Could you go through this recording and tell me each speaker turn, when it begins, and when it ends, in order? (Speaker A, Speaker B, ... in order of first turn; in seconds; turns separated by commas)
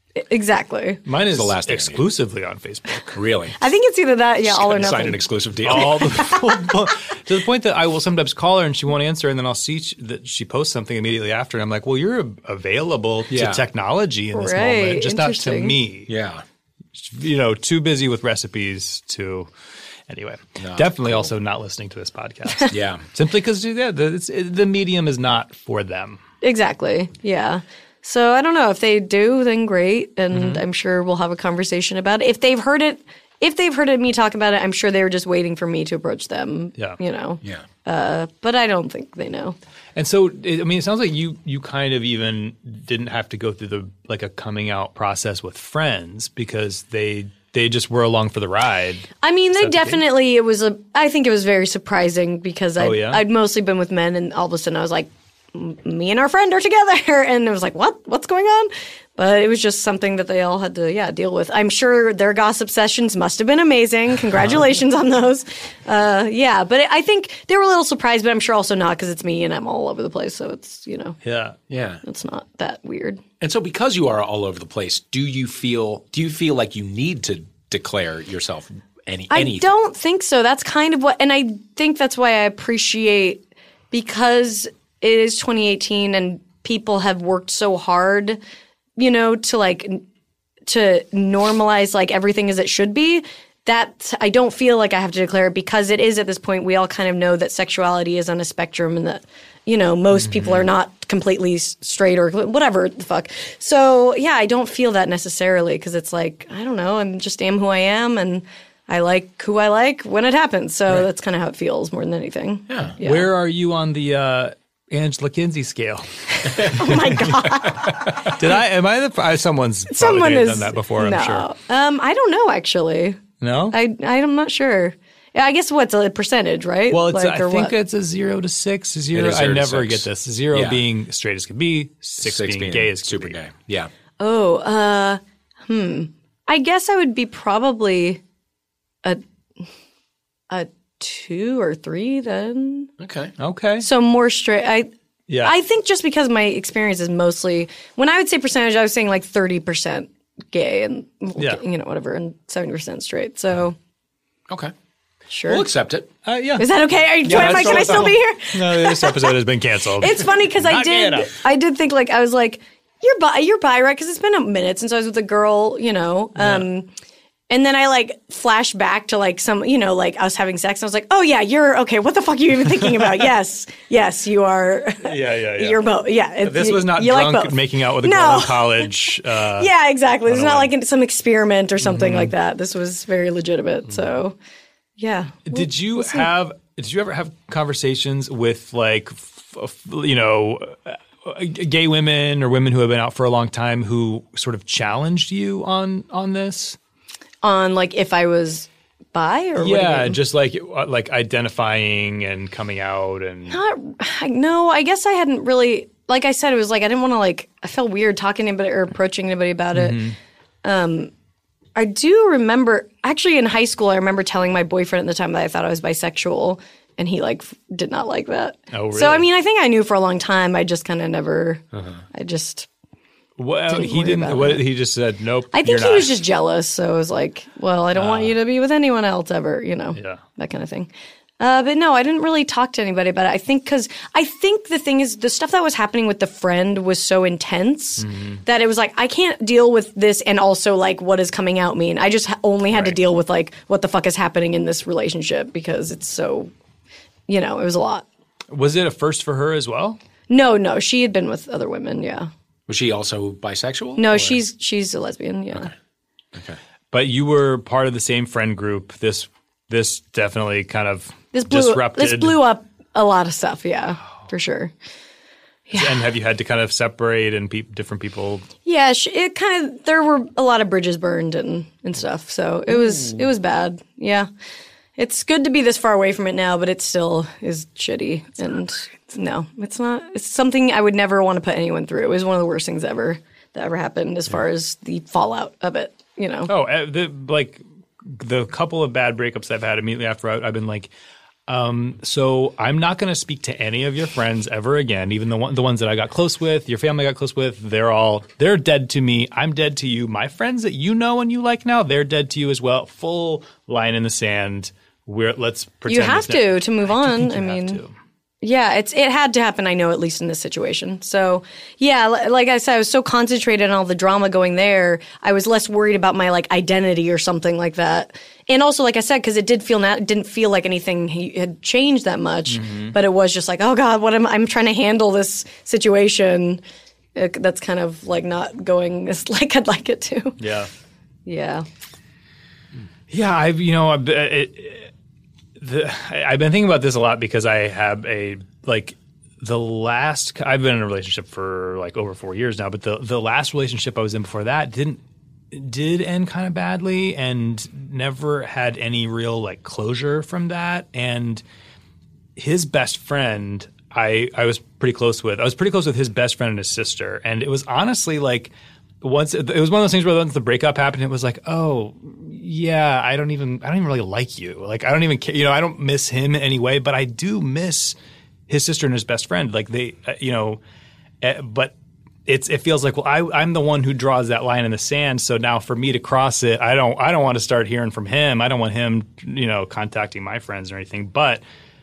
Speaker A: 0.1-1.0, Speaker B: 1.1-3.1, Speaker C: 1.3-2.0, Speaker C: 3.1-3.6, Speaker A: 3.6-5.2, Speaker C: 4.5-6.3, Speaker B: 5.6-16.1, Speaker C: 13.3-13.6, Speaker A: 14.3-15.8, Speaker C: 16.1-16.4, Speaker B: 16.9-19.5, Speaker B: 20.1-26.2, Speaker C: 20.6-21.3, Speaker C: 22.7-23.0, Speaker A: 26.4-39.5, Speaker B: 30.3-30.6, Speaker B: 39.9-50.0, Speaker A: 49.2-71.2, Speaker B: 52.8-53.2, Speaker B: 71.2-71.6, Speaker C: 71.7-72.0, Speaker A: 72.0-73.2, Speaker C: 73.4-79.7, Speaker A: 79.3-88.4, Speaker A: 89.0-90.0, Speaker A: 90.7-113.3, Speaker B: 100.1-100.7, Speaker C: 112.7-112.9, Speaker B: 113.0-117.6, Speaker A: 116.5-118.3, Speaker C: 117.8-118.3, Speaker B: 118.2-121.5, Speaker A: 119.9-127.7, Speaker B: 123.4-123.8, Speaker B: 126.9-133.4, Speaker C: 129.1-130.8, Speaker C: 132.2-133.9, Speaker A: 134.2-138.2, Speaker A: 140.5-142.9, Speaker C: 143.0-143.3, Speaker B: 143.4-143.9, Speaker A: 143.8-144.9, Speaker B: 145.3-145.5, Speaker A: 145.4-153.8, Speaker B: 151.4-151.6, Speaker A: 155.3-155.7, Speaker C: 155.5-156.1, Speaker B: 156.2-156.7, Speaker A: 156.6-159.3, Speaker B: 157.2-161.3, Speaker A: 160.0-166.9, Speaker B: 166.3-166.7, Speaker A: 167.5-184.3, Speaker B: 172.8-173.2, Speaker B: 175.0-175.8, Speaker B: 176.4-179.7, Speaker B: 180.2-180.7, Speaker B: 181.8-182.3, Speaker A: 185.0-186.3, Speaker B: 185.5-196.8, Speaker A: 197.4-200.2, Speaker B: 199.6-203.6, Speaker A: 203.5-210.0, Speaker B: 209.7-210.2, Speaker A: 210.6-211.1, Speaker A: 211.8-222.7, Speaker B: 218.7-219.3, Speaker C: 221.7-222.0, Speaker B: 223.4-226.2, Speaker A: 223.7-224.6, Speaker A: 225.5-246.5, Speaker B: 227.9-228.3, Speaker B: 229.9-230.2, Speaker B: 238.0-238.4, Speaker B: 242.7-243.0, Speaker A: 247.3-248.0, Speaker B: 248.5-250.0, Speaker A: 250.3-252.3, Speaker C: 252.7-254.4, Speaker A: 253.9-255.7, Speaker B: 256.9-262.4, Speaker A: 261.3-264.7, Speaker A: 265.7-265.9, Speaker B: 265.7-268.5, Speaker A: 268.6-274.3, Speaker B: 272.9-273.2, Speaker A: 275.0-286.5, Speaker B: 286.5-290.9, Speaker B: 291.5-307.9, Speaker A: 305.9-307.8, Speaker A: 308.4-326.6, Speaker B: 322.4-323.0, Speaker A: 327.1-330.4, Speaker B: 330.4-330.7, Speaker A: 331.2-331.6, Speaker B: 333.1-334.9, Speaker B: 335.6-351.4, Speaker B: 352.4-367.9, Speaker B: 368.5-370.6, Speaker B: 371.2-371.7, Speaker B: 372.2-381.4